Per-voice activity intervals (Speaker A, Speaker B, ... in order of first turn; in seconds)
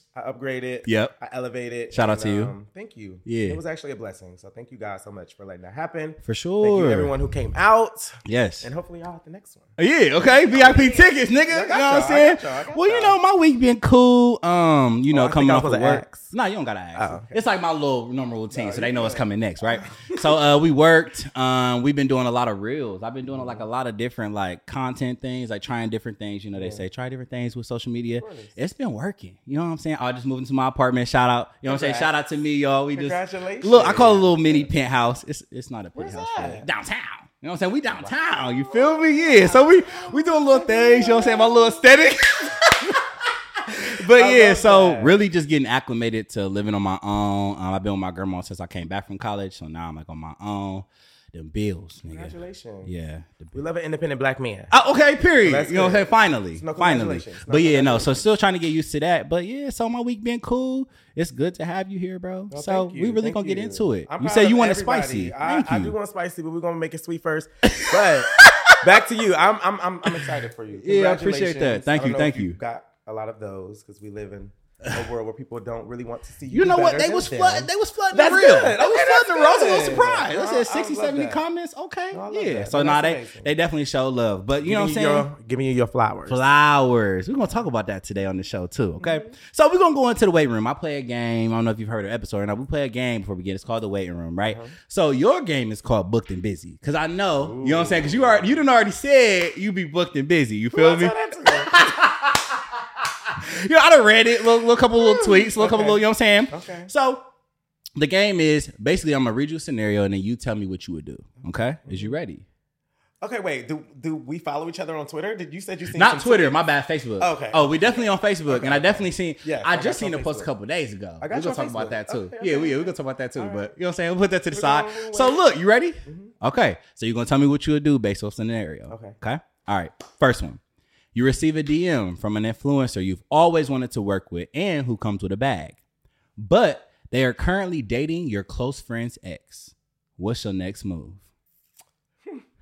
Speaker A: 0.1-13.2, 15.1-16.3, 16.9-17.4, 18.5-20.4, 23.3-23.7, 26.6-26.8, 28.2-28.6, 31.6-32.1, 32.9-34.7, 36.0-36.7, 38.0-41.9, 44.1-45.2, 52.1-52.9, 53.5-54.7, 55.4-58.3, 62.5-81.4, 82.1-83.5, 84.6-86.4, 89.0-89.3, 94.5-94.8, 97.4-98.7, 100.7-101.8, 105.0-106.9, 111.8-112.2, 113.2-116.7, 117.2-120.5, 121.2-123.7, 124.5-125.5, 126.0-126.3, 128.9-129.2
Speaker B: 0.9-1.1, 1.9-2.5, 3.2-3.6, 6.2-7.1, 8.2-8.7, 9.8-53.5, 54.7-66.0, 67.8-68.8, 70.2-72.6, 76.5-85.3, 86.3-107.3, 108.0-112.5, 115.9-130.6, 131.1-135.8, 136.4-141.2